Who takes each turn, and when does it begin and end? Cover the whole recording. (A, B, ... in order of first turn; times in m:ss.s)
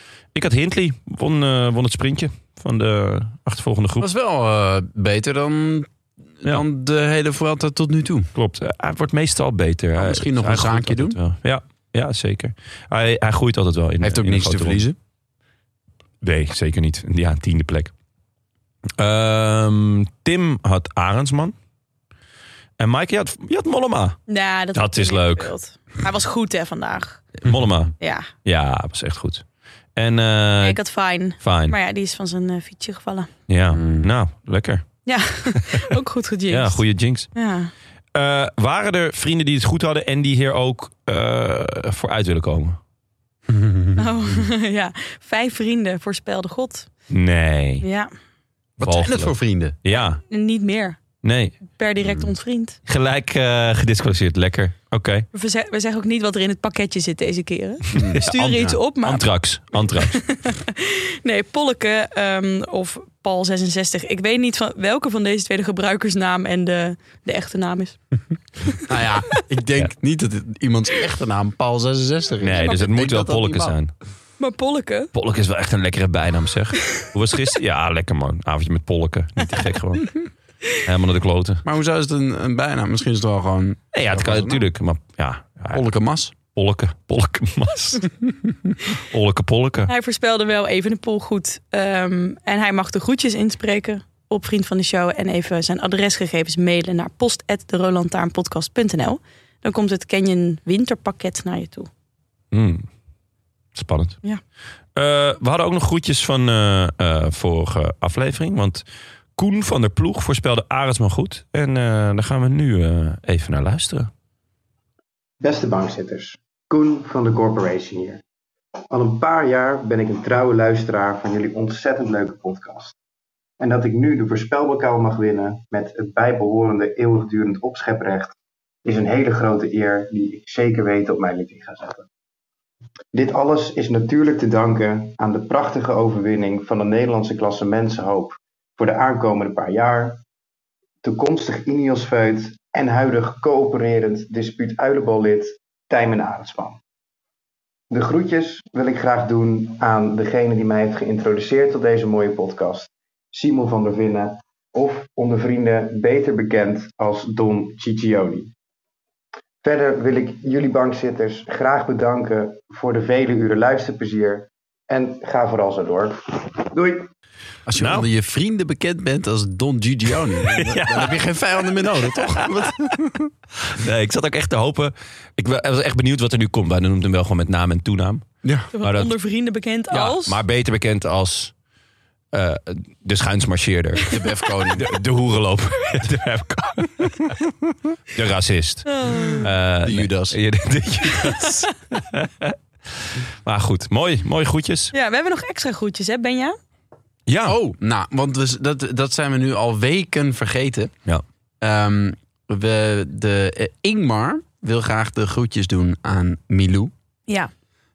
0:00.3-0:04.1 A
0:04.0-0:05.9 B
0:06.4-0:08.3 B
0:08.3-0:14.8 A
0:10.0-0:11.2 B
0:14.0-0:15.0 B
0:16.2-0:17.9 A
0:19.0-0:21.5 A
0:22.8-0:24.2 A
0:24.3-0:27.2 C
0:24.7-0:25.5 A
0:27.4-0:27.9 A
0:28.0-0:28.3 C
0:28.4-0:29.4 A
0:30.0-0:30.8 A
0:30.6-0:33.3 C
0:31.4-0:31.8 A
0:33.5-0:34.9 A
0:33.7-0:34.0 B
0:35.0-0:36.8 C
0:36.5-0:37.3 A
0:37.3-0:37.7 C
0:38.1-0:42.8 A
0:43.5-0:44.0 B
0:44.0-0:46.9 C
0:47.1-0:47.8 A
0:47.8-0:48.1 C
0:48.8-0:49.7 B
0:48.8-0:50.2 A
0:49.9-0:51.0 C
0:51.2-0:51.6 A
0:51.7-0:52.8 C
0:52.8-0:55.2 A
0:55.3-0:59.2 C
0:57.9-0:58.7 B
0:58.2-1:00.2 A
0:59.9-1:08.0 C
1:08.8-1:13.8 B
1:12.4-1:13.9 A
1:14.4-1:15.1 C
1:15.1-1:20.2 A
1:20.7-1:21.6 A
1:21.6-1:24.6 B
1:23.9-1:25.8 A
1:25.7-1:26.3 B
1:26.5-1:28.1 A
1:28.9-1:29.9 A
1:29.9-1:41.9 C
1:42.5-1:42.8 A
1:43.7-1:44.2 A
1:44.9-1:48.8 A
1:49.4-1:54.1 A
1:55.4-1:58.2 D
1:58.9-2:02.9 D
2:03.6-2:12.1 D
2:13.1-2:20.2 D
2:21.0-2:26.8 D
2:27.9-2:38.5 D
2:39.6-2:47.0 D
2:47.7-2:53.3 B
2:47.7-2:48.1 A
2:50.4-2:51.2 A
2:51.9-2:52.9 A
2:53.6-2:58.2 A
2:58.4-2:58.7 B
2:58.7-3:00.4 C
2:58.8-2:59.1 A
2:59.9-3:01.5 A
3:02.3-3:04.2 A
3:04.1-3:04.9 B
3:04.7-3:07.4 A
3:08.1-3:14.9 A
3:08.9-3:09.5 C
3:09.8-3:10.4 B
3:11.2-3:11.6 C
3:14.9-3:16.6 C
3:17.3-3:17.6 A
3:17.4-3:20.9 B
3:21.6-3:26.9 B